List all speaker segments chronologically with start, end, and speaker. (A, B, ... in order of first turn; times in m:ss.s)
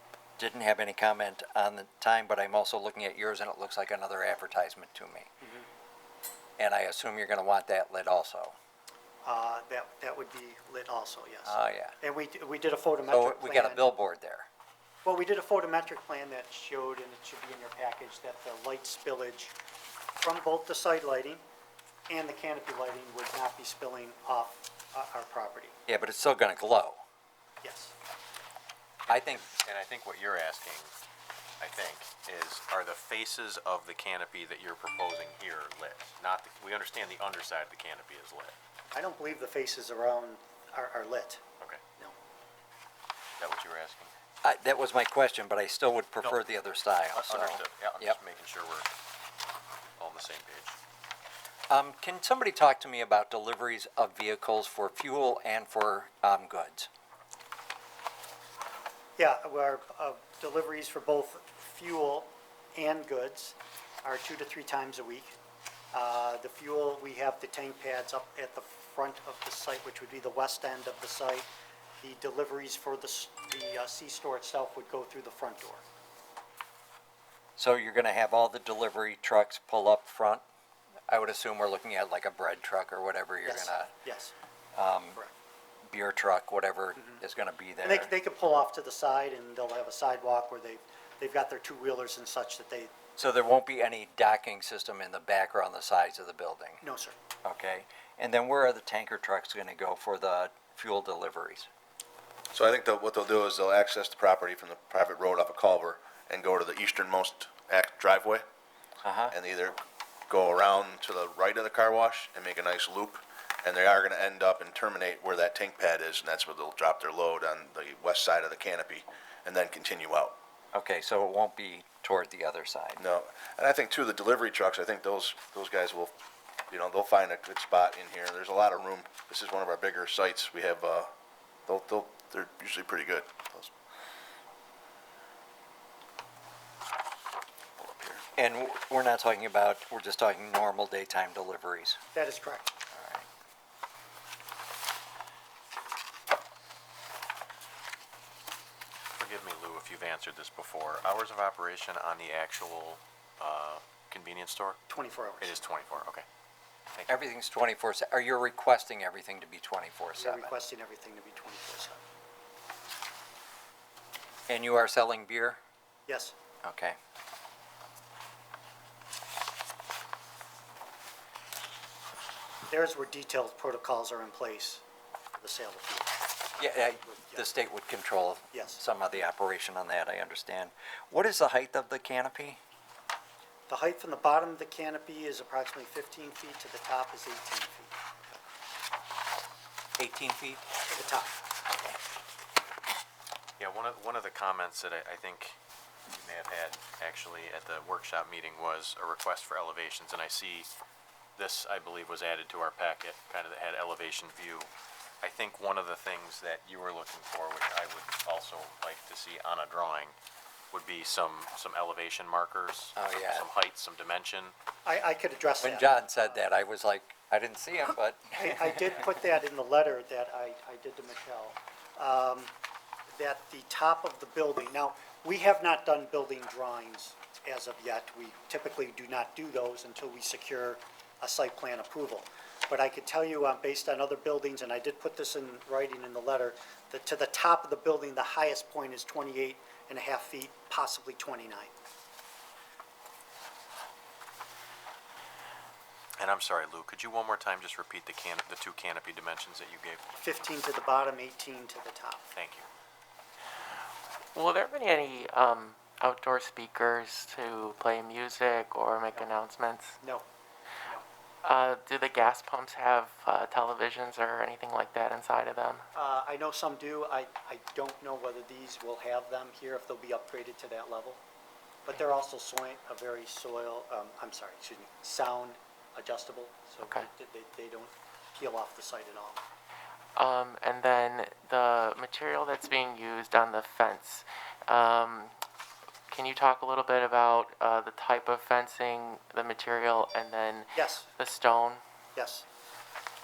0:00.4-0:05.3 A
0:06.6-0:08.5 A
0:09.2-0:13.8 B
0:11.4-0:11.9 A
0:13.1-0:14.5 A
0:15.0-0:19.5 B
0:20.2-0:21.4 B
0:22.1-0:25.7 B
0:25.9-0:27.0 A
0:27.6-0:27.9 B
0:29.1-0:30.9 C
0:29.1-0:29.4 A
0:31.6-0:38.6 C
0:38.9-0:41.4 B
0:43.4-0:44.1 C
0:44.4-0:48.2 A
0:47.1-0:48.9 C
0:50.0-0:50.8 C
0:51.7-0:56.9 A
0:59.2-1:05.3 B
1:05.9-1:11.5 B
1:12.0-1:15.8 B
1:17.6-1:20.4 A
1:21.1-1:23.9 A
1:23.5-1:24.3 B
1:24.7-1:25.2 A
1:25.9-1:28.1 A
1:27.8-1:32.9 B
1:33.2-1:36.8 A
1:36.8-1:37.1 B
1:37.4-1:41.7 A
1:42.5-1:48.4 D
1:49.0-1:49.3 A
1:49.3-2:00.4 D
2:00.7-2:03.0 A
2:03.0-2:06.1 D
2:06.7-2:11.1 D
2:11.6-2:13.7 D
2:17.8-2:18.2 D
2:18.4-2:22.0 A
2:22.1-2:22.7 B
2:22.9-2:23.2 A
2:29.1-2:34.8 C
2:34.9-2:35.4 B
2:35.4-2:36.2 C
2:37.1-2:40.5 A
2:40.2-2:42.0 B
2:44.5-2:45.6 A
2:46.1-2:46.3 B
2:46.6-2:47.0 A
2:52.7-2:54.8 B
2:55.4-2:56.1 B
2:56.6-3:02.6 A
2:58.5-2:58.8 B
3:03.7-3:07.9 B
3:10.0-3:10.6 A
3:10.9-3:11.3 B
3:13.6-3:15.6 C
3:16.2-3:20.7 C
3:21.4-3:24.7 C
3:25.2-3:30.1 C
3:30.7-3:34.5 C
3:33.0-3:33.5 A
3:34.8-3:35.9 B
3:35.6-3:39.0 A
3:38.4-3:42.5 B
3:43.2-4:01.7 B
4:06.2-4:10.0 C
4:10.2-4:12.2 B
4:12.3-4:12.7 C
4:14.3-4:20.0 E
4:21.4-4:25.8 E
4:25.9-4:31.2 B
4:31.8-4:39.4 B
4:40.2-4:45.3 E
4:46.1-4:51.8 E
4:52.2-4:52.4 B